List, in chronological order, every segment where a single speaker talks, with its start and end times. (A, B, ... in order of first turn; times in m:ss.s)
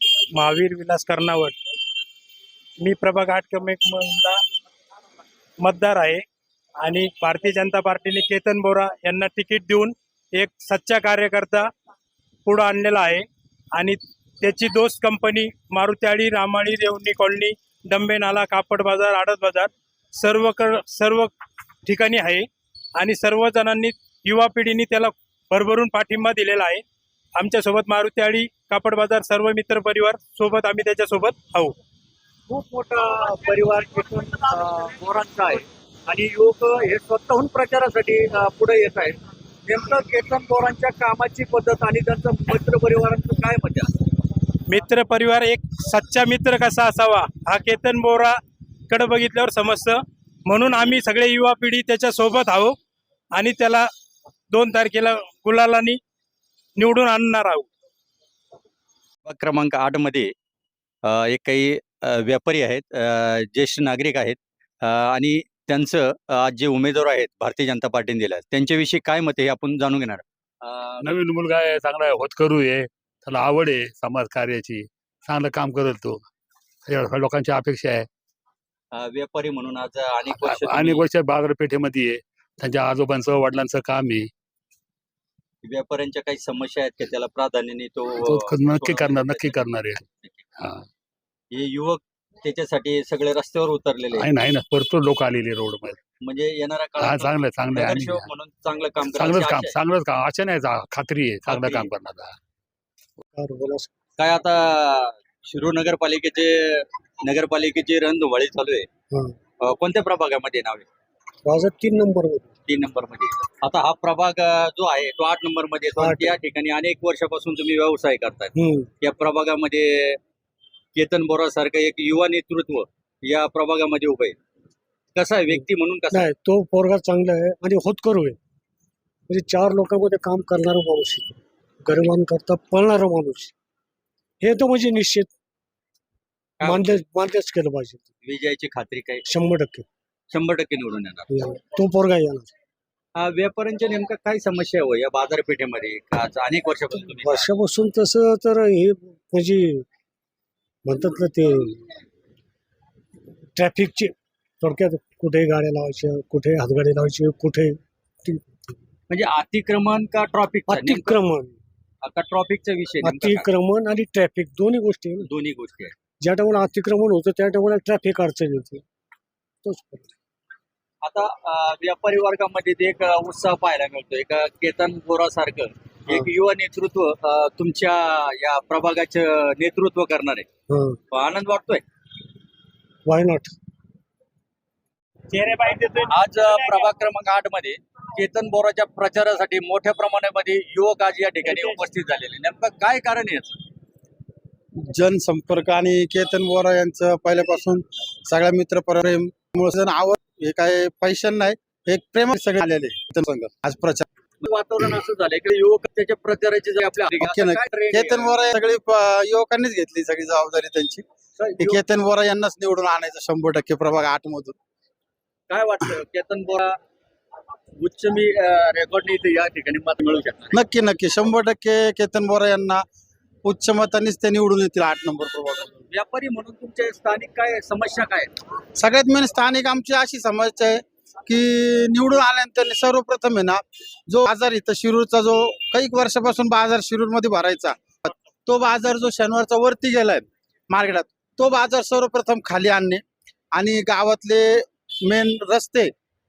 0:00.4-0:01.6 A
0:02.8-0:04.4 A
0:05.6-0:06.2 A
0:06.8-0:11.7 A
0:12.5-0:21.3 A
0:21.8-0:26.8 A
0:27.4-0:31.8 A
0:32.5-0:44.0 B
0:44.7-0:48.4 A
0:48.9-0:52.8 A
0:53.3-0:53.9 A
0:54.5-0:56.0 A
0:56.8-0:57.7 A
0:59.3-1:00.3 B
1:01.1-1:11.0 B
1:11.0-1:16.3 C
1:16.9-1:18.1 C
1:18.9-1:21.0 B
1:20.3-1:24.3 C
1:25.6-1:29.6 B
1:28.2-1:30.0 C
1:30.6-1:30.8 C
1:31.5-1:34.3 B
1:34.1-1:36.0 C
1:36.2-1:39.8 B
1:37.0-1:38.3 C
1:39.0-1:42.4 C
1:41.5-1:41.9 B
1:43.3-1:43.9 D
1:44.2-1:48.9 B
1:49.6-1:50.9 B
1:51.4-1:52.5 D
1:52.7-2:00.2 B
1:56.0-1:56.4 D
1:58.6-1:58.9 D
2:01.0-2:04.4 B
2:05.2-2:06.3 B
2:06.1-2:08.4 D
2:09.3-2:13.5 D
2:14.4-2:15.3 D
2:16.6-2:17.0 B
2:16.6-2:18.1 D
2:18.2-2:19.2 B
2:19.3-2:19.9 D
2:20.3-2:21.3 B
2:21.3-2:22.5 D
2:23.2-2:27.5 B
2:27.2-2:29.8 D
2:30.9-2:31.8 D
2:33.6-2:38.5 D
2:39.1-2:41.2 B
2:40.7-2:41.6 D
2:42.0-2:43.5 B
2:43.0-2:45.3 D
2:45.2-2:45.9 B
2:46.2-2:48.8 D
2:49.6-2:50.1 D
2:51.0-3:00.5 B
3:00.7-3:01.0 D
3:01.1-3:01.8 B
3:03.1-3:03.6 D
3:05.3-3:06.9 A
3:06.1-3:13.6 B
3:14.8-3:24.1 E
3:24.4-3:28.4 B
3:27.2-3:31.0 E
3:31.4-3:31.8 B
3:31.6-3:34.6 E
3:35.5-3:36.7 B
3:37.8-3:40.6 B
3:40.5-3:42.8 E
3:43.4-3:45.8 E
3:45.9-3:48.3 B
3:48.8-4:03.0 E
4:03.5-4:05.9 E